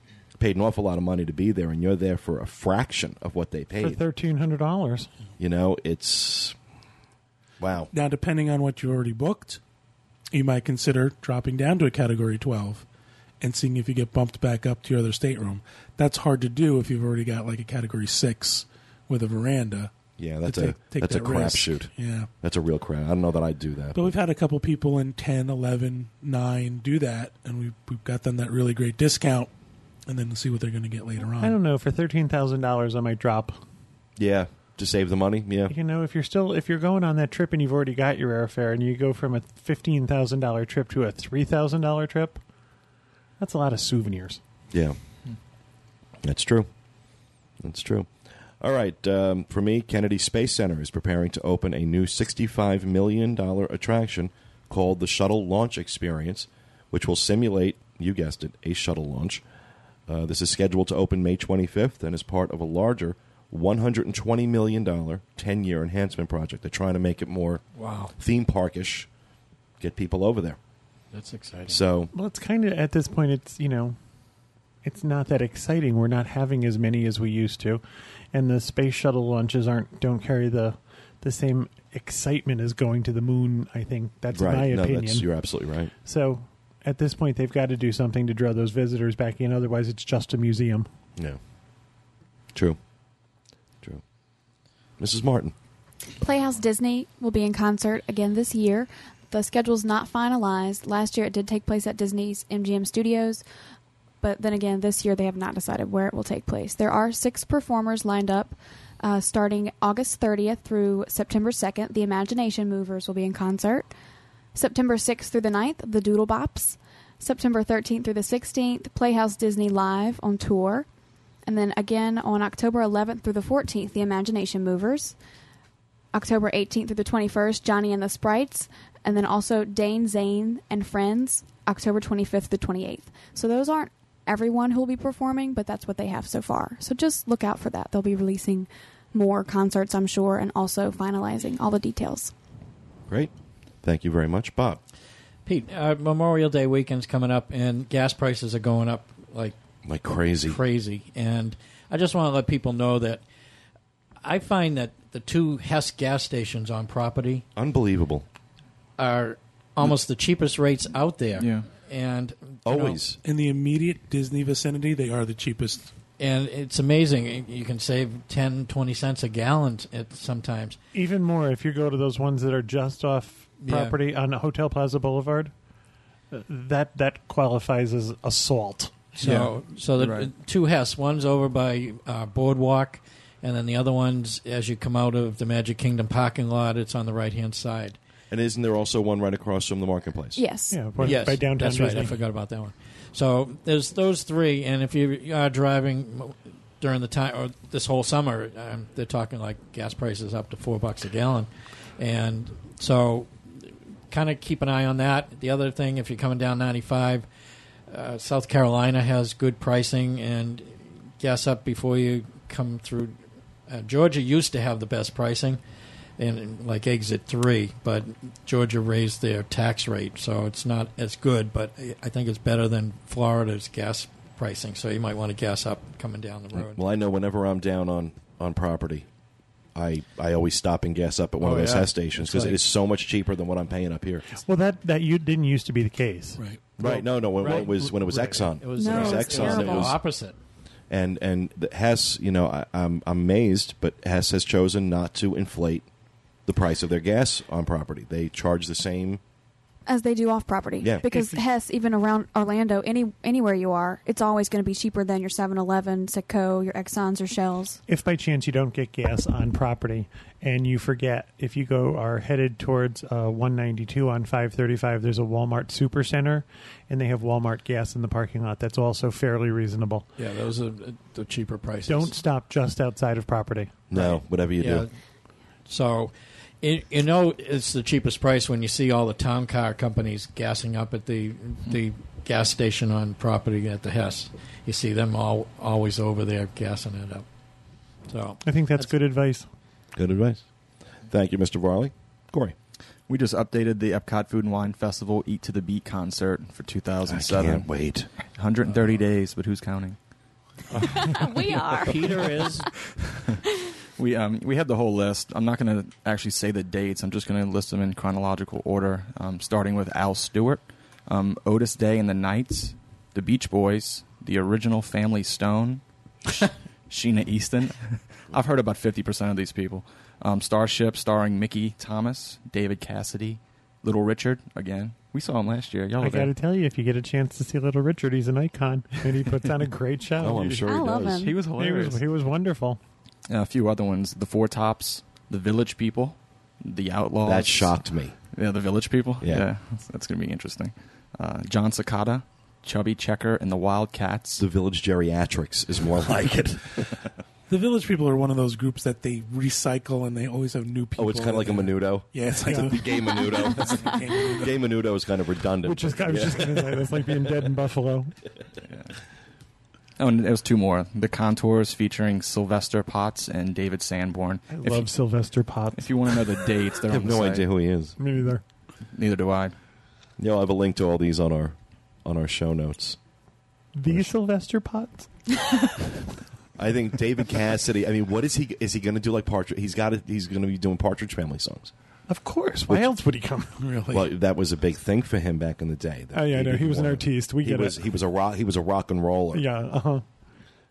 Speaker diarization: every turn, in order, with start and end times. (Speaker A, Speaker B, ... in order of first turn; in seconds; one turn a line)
Speaker A: 0.4-4.0
Speaker B: 3.8-5.1
Speaker A: 5.4-6.6
Speaker A: 7.6-7.9
Speaker C: 7.9-9.6
Speaker C: 10.3-12.8
Speaker C: 13.4-19.9
Speaker A: 20.2-21.9
Speaker C: 20.4-22.3
Speaker A: 22.4-24.1
Speaker C: 23.9-29.5
Speaker C: 30.1-31.6
Speaker B: 31.4-33.6
Speaker A: 34.2-35.7
Speaker B: 35.7-42.4
Speaker B: 43.4-44.4
Speaker A: 46.2-46.7
Speaker A: 47.6-48.1
Speaker A: 48.6-59.4
Speaker A: 60.1-67.6
Speaker D: 67.8-68.1
Speaker A: 68.2-69.1
Speaker A: 69.8-70.6
Speaker D: 71.1-71.8
Speaker A: 71.7-72.1
Speaker B: 72.1-74.0
Speaker B: 74.8-77.8
Speaker B: 78.3-85.3
Speaker A: 84.3-85.9
Speaker B: 86.0-90.9
Speaker A: 95.0-95.5
Speaker E: 96.2-103.4
Speaker E: 104.2-113.9
Speaker E: 114.5-120.9
Speaker E: 121.5-125.2
Speaker E: 126.1-142.3
Speaker A: 143.8-144.8
Speaker D: 145.5-149.6
Speaker A: 149.8-150.6
Speaker D: 150.5-153.2
Speaker D: 154.2-157.4
Speaker A: 157.6-158.3
Speaker D: 159.0-163.0
Speaker F: 161.4-161.7
Speaker A: 162.7-163.2
Speaker C: 163.2-165.9
Speaker D: 166.2-170.8
Speaker B: 170.9-175.5
Speaker D: 173.6-174.0
Speaker B: 176.3-179.1
Speaker D: 179.2-188.0
Speaker F: 180.0-180.3
Speaker A: 188.3-190.4
Speaker E: 190.3-190.8
Speaker B: 190.7-192.2
Speaker D: 191.0-203.3
Speaker D: 204.1-207.3
Speaker D: 207.9-215.6
Speaker D: 216.2-226.8
Speaker A: 226.5-229.1
Speaker A: 229.8-234.3
Speaker D: 231.4-232.6
Speaker B: 234.4-236.4
Speaker A: 236.8-240.0
Speaker D: 236.8-237.7
Speaker B: 237.4-238.5
Speaker D: 238.6-240.4
Speaker E: 238.8-240.0
Speaker A: 240.9-245.9
Speaker A: 246.5-249.2
Speaker E: 249.9-257.8
Speaker A: 250.8-251.1
Speaker B: 257.9-270.1
Speaker D: 270.2-272.1
Speaker B: 271.9-273.8
Speaker A: 273.9-274.9
Speaker D: 273.9-274.9
Speaker D: 275.7-287.3
Speaker D: 288.1-288.9
Speaker B: 288.4-289.5
Speaker A: 289.9-290.4
Speaker A: 291.1-292.6
Speaker F: 293.1-297.7
Speaker A: 297.1-298.1
Speaker F: 298.3-300.0
Speaker E: 300.8-302.4
Speaker D: 301.5-302.7
Speaker F: 304.0-326.3
Speaker B: 326.0-330.5
Speaker A: 330.2-331.3
Speaker F: 330.4-332.0
Speaker E: 330.7-331.4
Speaker B: 331.5-332.8
Speaker F: 333.3-337.8
Speaker A: 337.2-338.1
Speaker F: 338.3-344.4
Speaker A: 344.4-347.1
Speaker C: 347.5-354.6
Speaker A: 351.0-357.1
Speaker B: 352.4-352.7
Speaker B: 355.6-358.1
Speaker F: 360.0-364.8
Speaker B: 364.5-366.2
Speaker F: 365.8-367.5
Speaker A: 366.9-368.0
Speaker B: 368.0-368.4
Speaker F: 368.9-369.6
Speaker A: 370.2-373.0
Speaker B: 373.8-375.1
Speaker A: 376.6-381.7
Speaker B: 382.1-383.6
Speaker C: 383.6-384.1
Speaker A: 383.9-389.4
Speaker B: 386.1-387.8
Speaker B: 389.3-390.0